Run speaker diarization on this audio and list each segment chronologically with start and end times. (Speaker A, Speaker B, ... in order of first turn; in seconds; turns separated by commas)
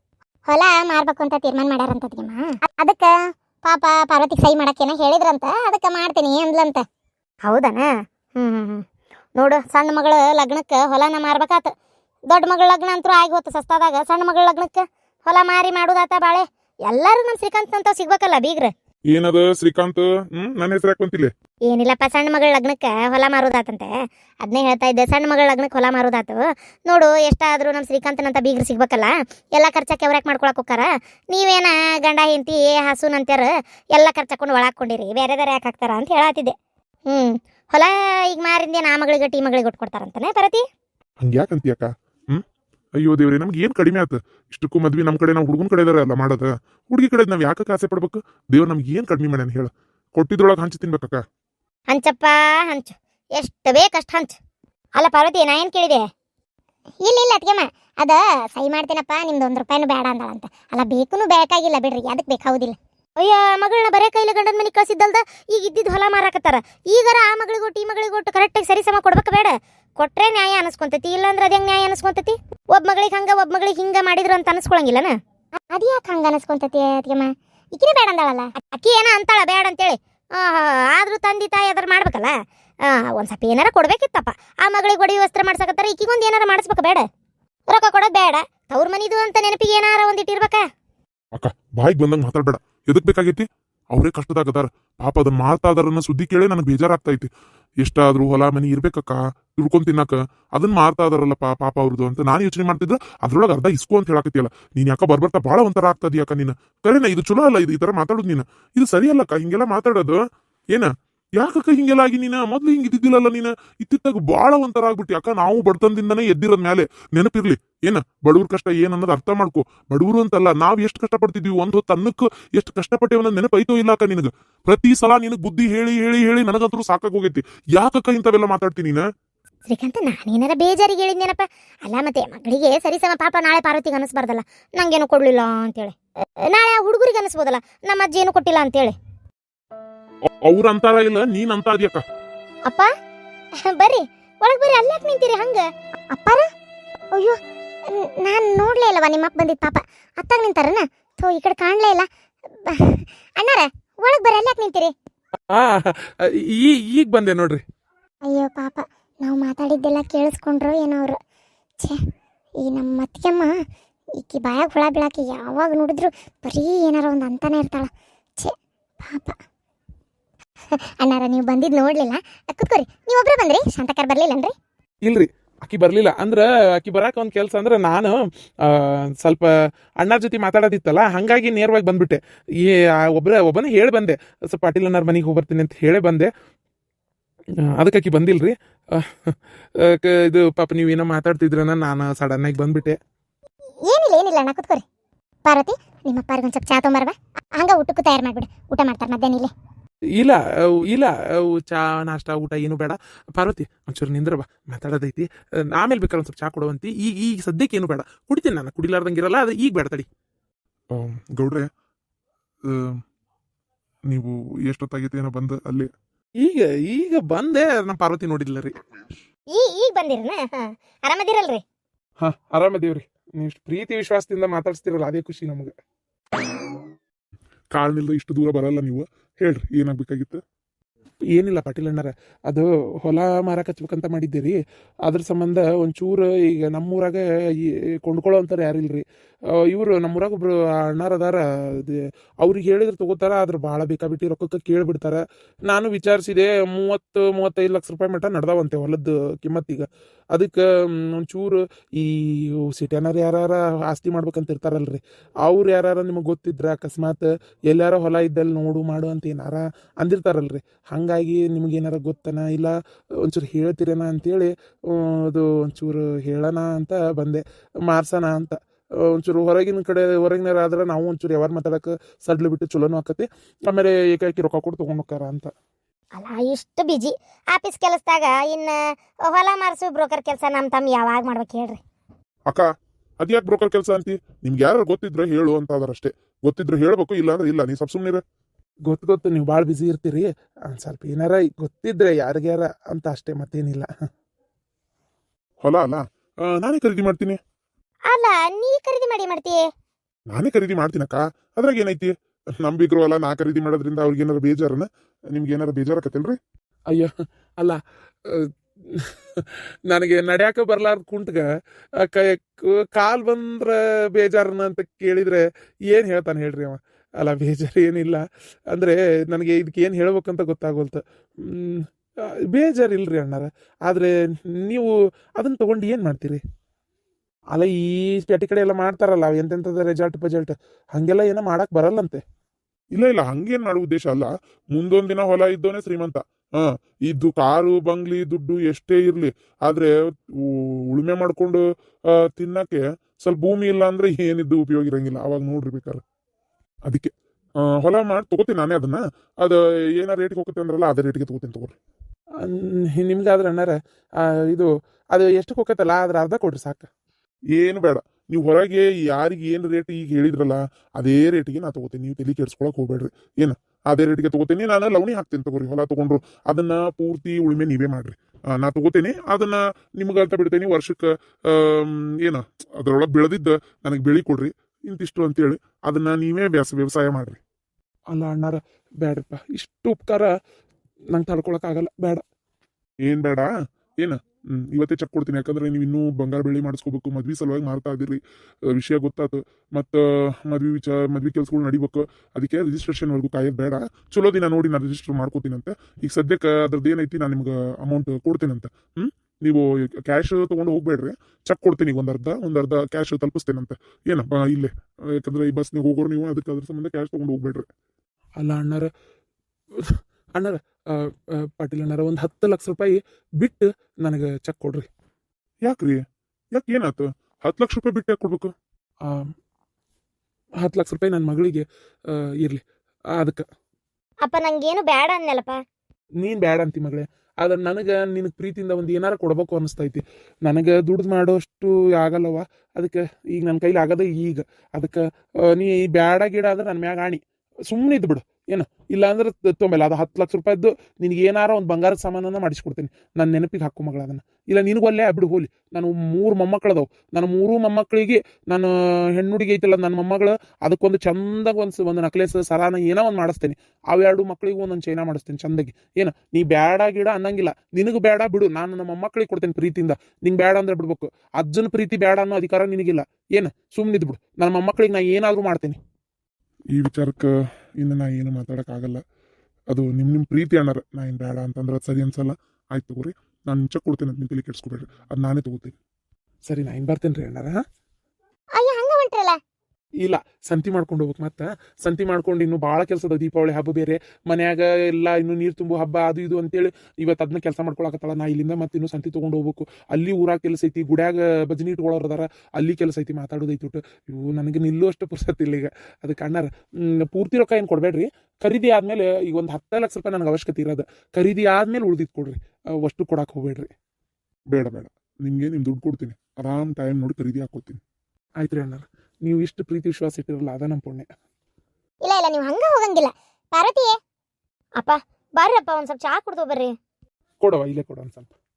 Speaker A: 0.5-6.8, Speaker A: 7.5-8.8, Speaker A: 9.3-11.7, Speaker A: 12.3-18.7, Speaker B: 19.1-21.3, Speaker A: 21.7-23.9, Speaker A: 24.4-36.5, Speaker A: 37.1-40.6, Speaker B: 41.2-42.4, Speaker B: 43.0-51.2, Speaker A: 51.9-54.4, Speaker A: 55.0-56.0, Speaker A: 57.0-75.1, Speaker A: 75.7-82.3, Speaker A: 82.8-87.0, Speaker A: 87.7-90.6, Speaker B: 91.3-97.3, Speaker B: 97.8-110.2, Speaker B: 110.7-129.0, Speaker A: 129.7-138.9, Speaker B: 140.4-142.0, Speaker A: 143.6-146.5, Speaker A: 147.1-152.1, Speaker A: 152.6-154.9, Speaker C: 155.5-157.6, Speaker A: 158.3-161.2, Speaker A: 162.6-163.5, Speaker A: 164.2-169.4, Speaker A: 171.0-174.5, Speaker C: 175.0-186.3, Speaker C: 187.6-193.0, Speaker A: 193.8-194.8, Speaker A: 195.4-199.5, Speaker C: 200.2-210.1, Speaker B: 210.9-211.7, Speaker B: 212.6-213.0, Speaker B: 214.1-215.9, Speaker C: 216.4-218.8, Speaker A: 219.5-221.6, Speaker C: 222.2-225.7, Speaker B: 227.7-230.4, Speaker C: 231.3-275.5, Speaker A: 276.1-281.8, Speaker B: 283.2-288.2, Speaker C: 288.9-293.9, Speaker B: 295.6-297.4, Speaker A: 298.1-299.6, Speaker B: 300.3-302.1, Speaker B: 302.6-306.4, Speaker C: 306.9-326.4, Speaker C: 327.5-332.2, Speaker B: 332.9-346.0, Speaker B: 347.6-351.8, Speaker C: 352.4-356.9, Speaker B: 357.5-377.4, Speaker C: 378.1-380.3, Speaker C: 381.1-382.2, Speaker B: 383.0-383.5, Speaker B: 384.0-407.7, Speaker C: 408.4-408.9, Speaker C: 409.8-414.9, Speaker B: 415.6-416.0, Speaker B: 416.5-418.5, Speaker C: 419.0-419.3, Speaker C: 420.6-422.6, Speaker C: 423.1-423.4, Speaker A: 424.2-425.6, Speaker C: 426.2-465.8, Speaker B: 466.7-469.0, Speaker B: 469.7-475.7, Speaker C: 476.4-477.6, Speaker A: 478.6-479.4, Speaker C: 480.0-503.7, Speaker B: 504.5-507.8, Speaker C: 508.4-511.1, Speaker A: 512.0-513.9, Speaker A: 514.8-516.7, Speaker C: 517.4-518.3